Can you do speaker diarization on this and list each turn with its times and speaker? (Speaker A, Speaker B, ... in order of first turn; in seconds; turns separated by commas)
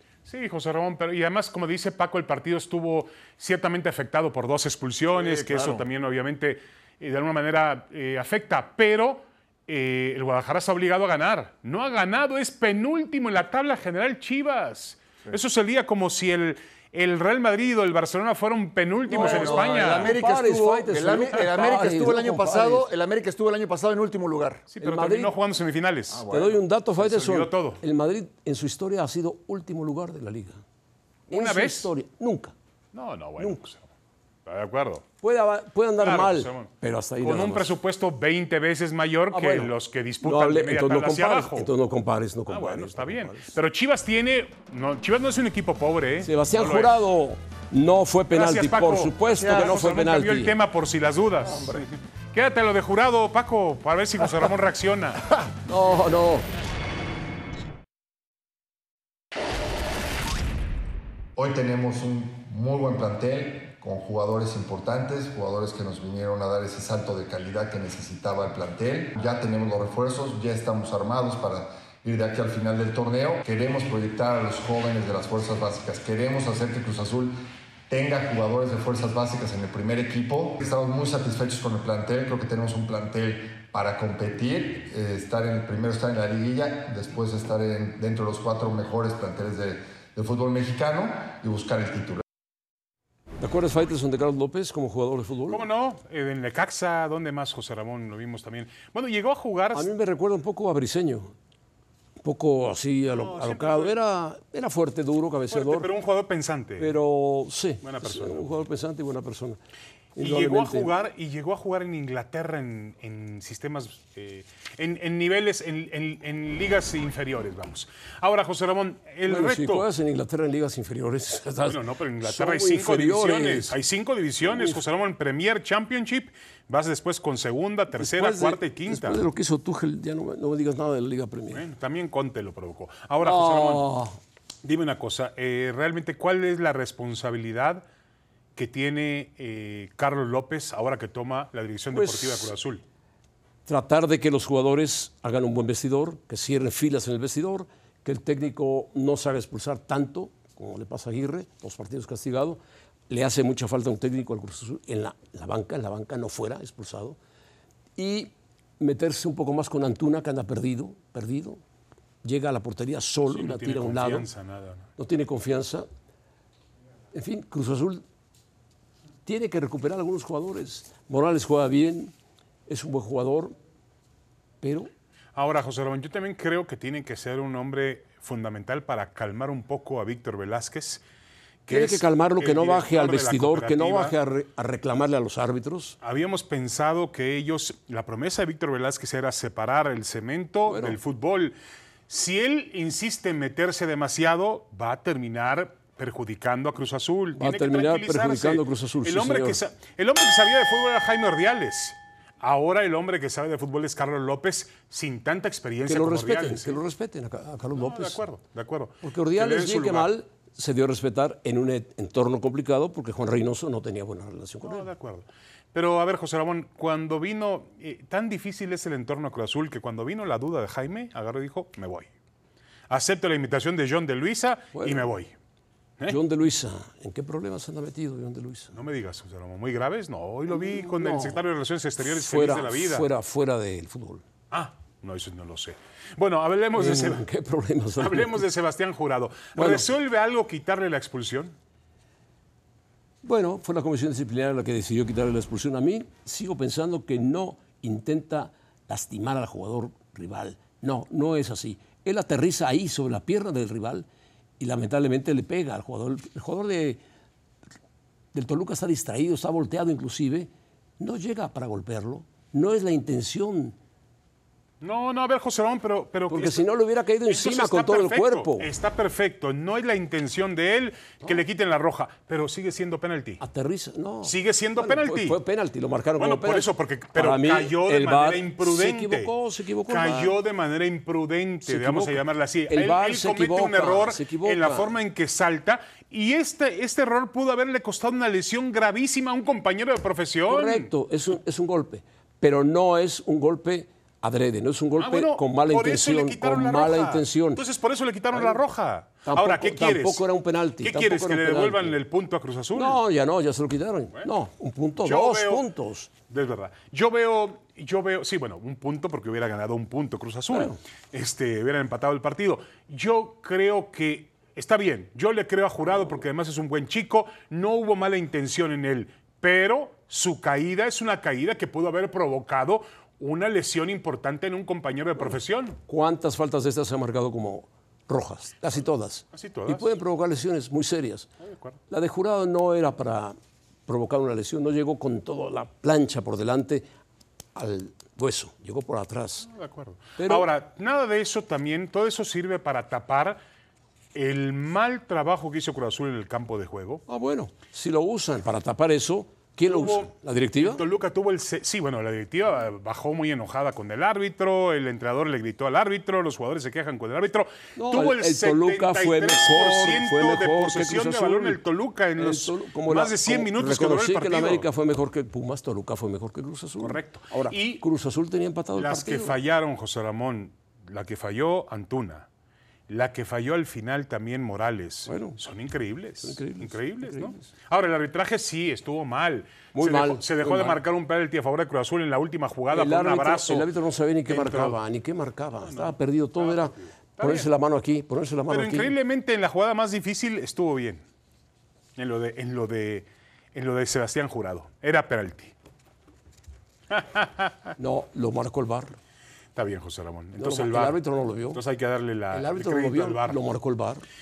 Speaker A: 0.2-20.1, Speaker B: 5.1-5.8, Speaker C: 19.1-22.9, Speaker B: 19.1-24.6, Speaker A: 24.7-26.3, Speaker C: 24.8-25.3, Speaker B: 26.1-26.6, Speaker C: 26.3-30.6, Speaker A: 27.0-27.8, Speaker A: 31.3-31.9, Speaker C: 31.3-32.5, Speaker A: 32.9-33.8, Speaker A: 34.5-35.0, Speaker C: 35.2-37.7, Speaker A: 36.0-41.7, Speaker C: 39.3-43.5, Speaker A: 42.5-47.0, Speaker C: 46.2-50.5, Speaker A: 48.3-55.2, Speaker B: 49.3-49.8, Speaker B: 51.4-51.8, Speaker C: 55.6-56.5, Speaker D: 61.4-77.4, Speaker D: 77.9-92.2, Speaker C: 93.4-95.6, Speaker A: 95.5-99.9, Speaker C: 99.7-101.3, Speaker C: 102.2-105.9, Speaker A: 103.1-103.9, Speaker A: 105.5-106.9, Speaker C: 106.8-109.6, Speaker A: 107.8-108.5, Speaker C: 110.2-110.9, Speaker A: 110.2-119.9, Speaker C: 119.3-123.8, Speaker A: 121.7-129.2, Speaker C: 124.5-124.8, Speaker C: 128.0-131.6, Speaker A: 131.5-133.9, Speaker C: 133.2-134.1, Speaker A: 134.6-137.8, Speaker A: 138.6-142.8, Speaker C: 141.9-142.5, Speaker C: 143.7-157.2, Speaker C: 158.0-161.6, Speaker C: 162.2-164.3, Speaker A: 163.3-164.9, Speaker C: 165.0-165.9, Speaker C: 167.1-168.0, Speaker C: 169.2-172.1, Speaker C: 172.7-173.6, Speaker C: 174.6-174.9, Speaker A: 175.3-181.0, Speaker A: 181.7-184.1, Speaker C: 181.7-185.9, Speaker A: 186.0-191.6, Speaker C: 190.7-191.0, Speaker A: 192.1-206.8, Speaker C: 197.3-199.6, Speaker C: 205.8-208.2, Speaker A: 207.7-210.1, Speaker C: 209.0-214.9, Speaker A: 214.6-222.1, Speaker A: 222.9-225.3, Speaker C: 224.7-225.1, Speaker C: 226.1-228.8, Speaker A: 228.7-233.1, Speaker C: 230.5-231.4, Speaker C: 232.0-234.2, Speaker A: 234.5-237.2, Speaker C: 236.8-238.4, Speaker A: 238.0-241.5, Speaker C: 239.5-239.9, Speaker C: 243.2-254.1, Speaker C: 254.6-257.0, Speaker C: 258.3-263.8, Speaker A: 264.8-266.7, Speaker C: 266.3-268.7, Speaker A: 267.3-273.4, Speaker C: 273.4-280.3, Speaker A: 274.2-275.4, Speaker A: 276.2-279.3, Speaker A: 279.9-290.9, Speaker C: 281.6-284.9, Speaker C: 290.5-297.6, Speaker A: 295.0-300.3, Speaker C: 298.3-298.6, Speaker C: 299.2-301.9, Speaker A: 300.8-303.0, Speaker C: 302.7-306.1, Speaker A: 305.0-305.6, Speaker A: 306.3-325.8, Speaker C: 310.5-310.8, Speaker C: 325.9-331.3, Speaker A: 329.3-329.9, Speaker A: 331.4-331.8, Speaker C: 331.9-333.4, Speaker C: 333.9-336.9, Speaker C: 337.5-339.5, Speaker A: 339.4-343.4, Speaker C: 340.2-340.5, Speaker A: 344.1-347.0, Speaker C: 347.1-350.8, Speaker A: 349.6-364.6, Speaker C: 357.8-361.6, Speaker C: 362.2-369.3, Speaker A: 366.8-367.8, Speaker A: 368.8-372.3, Speaker A: 372.9-383.7, Speaker C: 375.1-375.4, Speaker C: 376.2-377.4, Speaker C: 379.7-380.8, Speaker C: 382.7-388.9, Speaker A: 384.3-384.8, Speaker A: 385.6-387.5, Speaker A: 388.5-391.0, Speaker A: 392.0-395.5, Speaker A: 396.9-397.7, Speaker C: 397.8-399.0, Speaker A: 399.5-401.0, Speaker C: 400.4-401.6, Speaker A: 401.5-403.4, Speaker C: 402.3-404.0